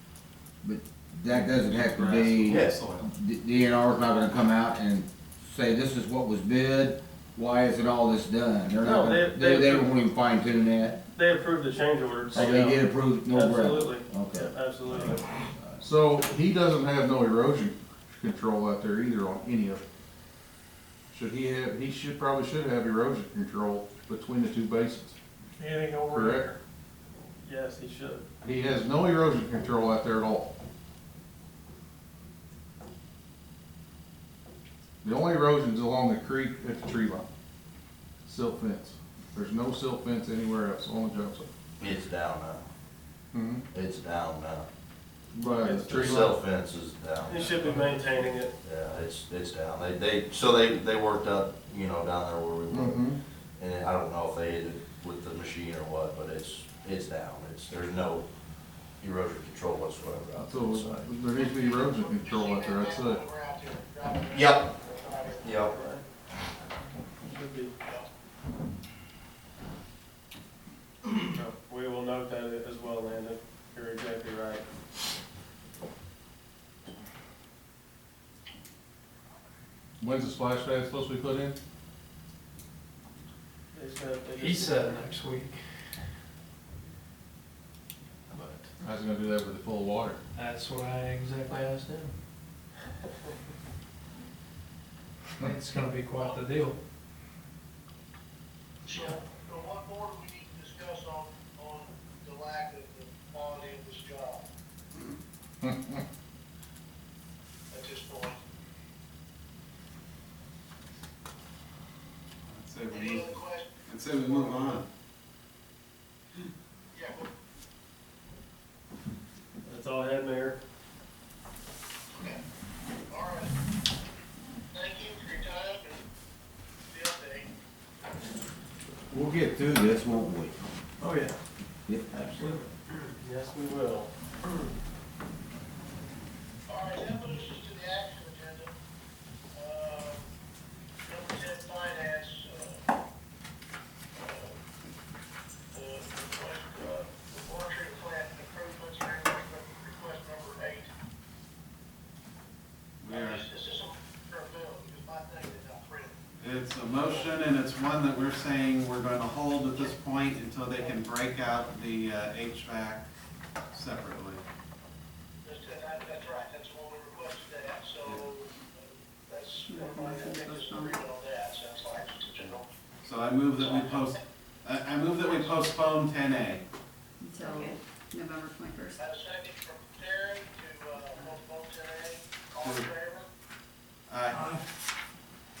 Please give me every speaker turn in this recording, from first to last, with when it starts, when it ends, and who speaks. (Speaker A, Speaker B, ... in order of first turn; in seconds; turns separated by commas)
Speaker A: 0.6-11.0, Speaker B: 1.3-3.1, Speaker C: 2.5-2.8, Speaker D: 8.8-9.9, Speaker D: 11.1-15.2, Speaker A: 12.3-14.5, Speaker E: 15.8-19.8, Speaker E: 21.1-25.2, Speaker D: 25.6-26.6, Speaker E: 26.1-26.5, Speaker D: 27.4-28.2, Speaker E: 28.4-30.5, Speaker E: 35.0-37.3, Speaker E: 38.2-41.5, Speaker C: 41.8-42.7, Speaker E: 43.3-43.6, Speaker C: 43.7-44.7, Speaker E: 45.3-46.3, Speaker D: 45.6-46.0, Speaker C: 45.7-53.0, Speaker D: 47.2-48.5, Speaker E: 52.7-53.2, Speaker C: 53.6-58.2, Speaker C: 59.0-61.1, Speaker E: 60.4-63.2, Speaker F: 61.3-65.6, Speaker C: 64.3-64.7, Speaker C: 65.4-65.7, Speaker D: 65.7-66.0, Speaker D: 67.2-67.7, Speaker D: 71.3-74.6, Speaker E: 80.0-81.6, Speaker D: 83.7-85.1, Speaker G: 84.4-85.6, Speaker E: 88.8-90.2, Speaker G: 90.3-92.1, Speaker G: 95.4-96.8, Speaker F: 96.2-96.4, Speaker F: 98.8-104.4, Speaker E: 105.6-105.9, Speaker F: 107.7-108.4, Speaker B: 112.5-114.8, Speaker F: 112.9-114.8, Speaker F: 116.9-117.3, Speaker D: 119.6-120.6, Speaker F: 122.1-122.4, Speaker F: 123.1-123.5, Speaker F: 124.7-126.0, Speaker F: 126.9-127.5, Speaker A: 129.1-130.6, Speaker D: 131.0-131.4, Speaker A: 131.8-132.6, Speaker D: 132.1-134.1, Speaker F: 136.7-138.7, Speaker F: 139.5-140.2, Speaker F: 141.1-142.8, Speaker F: 144.1-144.6, Speaker F: 145.7-150.9, Speaker B: 153.0-153.4, Speaker F: 153.1-156.2, Speaker B: 156.4-163.0, Speaker F: 156.8-157.3, Speaker B: 163.7-164.4, Speaker F: 165.4-172.6, Speaker H: 169.6-171.0, Speaker B: 173.0-176.6, Speaker F: 173.5-174.1, Speaker H: 177.2-179.0, Speaker F: 179.0-183.3, Speaker B: 182.6-182.9, Speaker B: 184.1-184.6